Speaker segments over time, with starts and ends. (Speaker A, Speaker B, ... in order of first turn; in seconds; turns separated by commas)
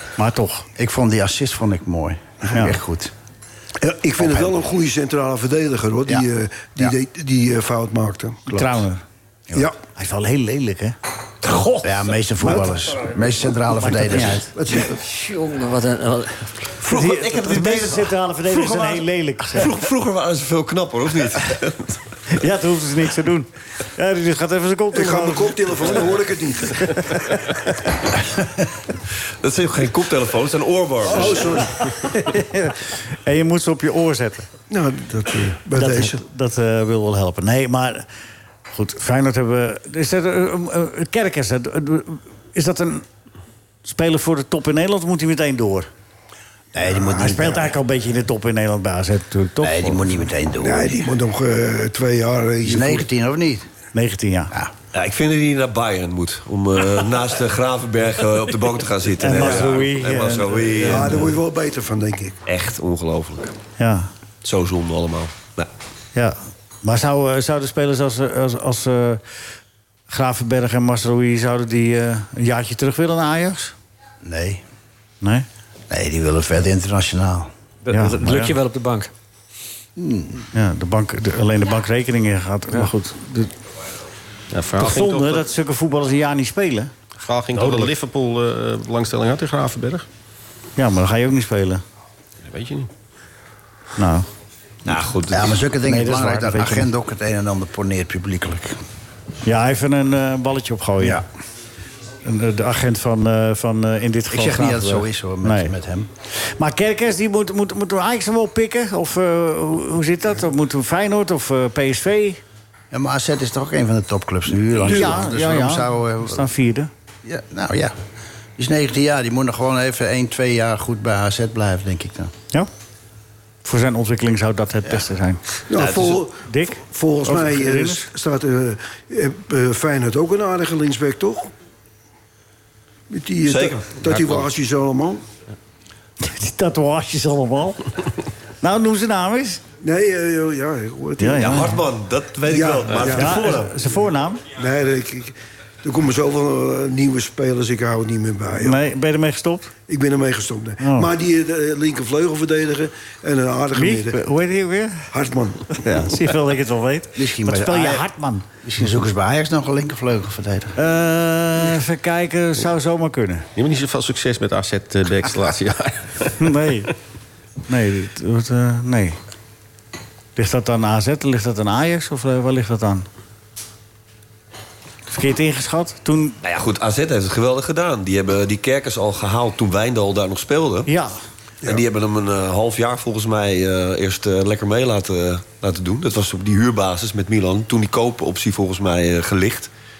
Speaker A: 0.2-0.7, Speaker B: 0.8-3.1, Speaker C: 3.8-8.4, Speaker B: 4.2-4.7, Speaker B: 8.5-8.8, Speaker A: 8.5-10.9, Speaker D: 11.4-11.9, Speaker B: 11.8-14.5, Speaker A: 13.8-14.5, Speaker C: 14.6-14.9, Speaker D: 14.9-16.5, Speaker E: 16.8-21.9, Speaker A: 16.9-19.7, Speaker A: 22.3-26.0, Speaker C: 24.9-27.2, Speaker E: 29.4-31.5, Speaker C: 31.1-31.9, Speaker A: 32.0-34.5, Speaker C: 34.7-36.2, Speaker A: 35.8-38.1, Speaker A: 38.7-43.0, Speaker A: 43.9-45.9, Speaker B: 46.7-47.7, Speaker A: 47.0-50.1, Speaker B: 49.6-51.1, Speaker C: 50.6-53.1, Speaker B: 52.6-53.6, Speaker A: 53.9-54.5, Speaker E: 54.9-61.2, Speaker A: 59.2-61.3, Speaker C: 59.3-59.7, Speaker C: 60.9-62.4, Speaker E: 62.5-63.5, Speaker A: 63.8-64.1, Speaker E: 64.4-65.7, Speaker A: 66.1-69.2, Speaker A: 70.1-73.7, Speaker B: 74.2-74.6, Speaker B: 75.9-77.5, Speaker D: 77.8-79.1, Speaker A: 77.9-78.5, Speaker B: 80.0-80.5, Speaker A: 80.5-83.5, Speaker F: 84.5-85.5, Speaker A: 84.8-86.9, Speaker F: 87.2-90.1, Speaker A: 87.6-87.9, Speaker A: 90.8-91.8, Speaker F: 92.5-92.9, Speaker A: 94.0-94.3, Speaker E: 94.9-95.6, Speaker B: 95.2-98.8, Speaker A: 95.8-96.9, Speaker A: 99.5-101.2, Speaker A: 102.2-105.7, Speaker B: 104.3-106.1, Speaker A: 106.4-112.4, Speaker B: 112.9-116.5, Speaker A: 114.8-116.9, Speaker B: 117.2-118.0, Speaker B: 118.6-122.3, Speaker A: 123.6-125.4, Speaker C: 125.7-131.5, Speaker E: 125.8-126.2, Speaker A: 126.4-128.1, Speaker C: 133.1-135.2, Speaker E: 133.4-134.4, Speaker A: 136.2-137.8, Speaker A: 138.6-139.6, Speaker C: 139.8-141.7, Speaker A: 141.2-141.8, Speaker E: 141.4-143.7, Speaker C: 142.5-143.5, Speaker A: 143.1-144.4, Speaker C: 144.6-148.8, Speaker A: 148.6-149.7, Speaker C: 149.9-154.2, Speaker A: 150.8-151.1, Speaker A: 153.8-155.1, Speaker C: 155.1-155.8, Speaker A: 155.8-158.4, Speaker B: 157.1-158.1, Speaker B: 158.6-160.8, Speaker A: 160.8-163.5, Speaker F: 163.6-166.3, Speaker A: 166.4-166.9, Speaker A: 167.7-169.2, Speaker A: 170.4-173.1, Speaker A: 175.1-176.4, Speaker E: 176.4-180.9, Speaker A: 180.9-181.1, Speaker E: 181.6-189.7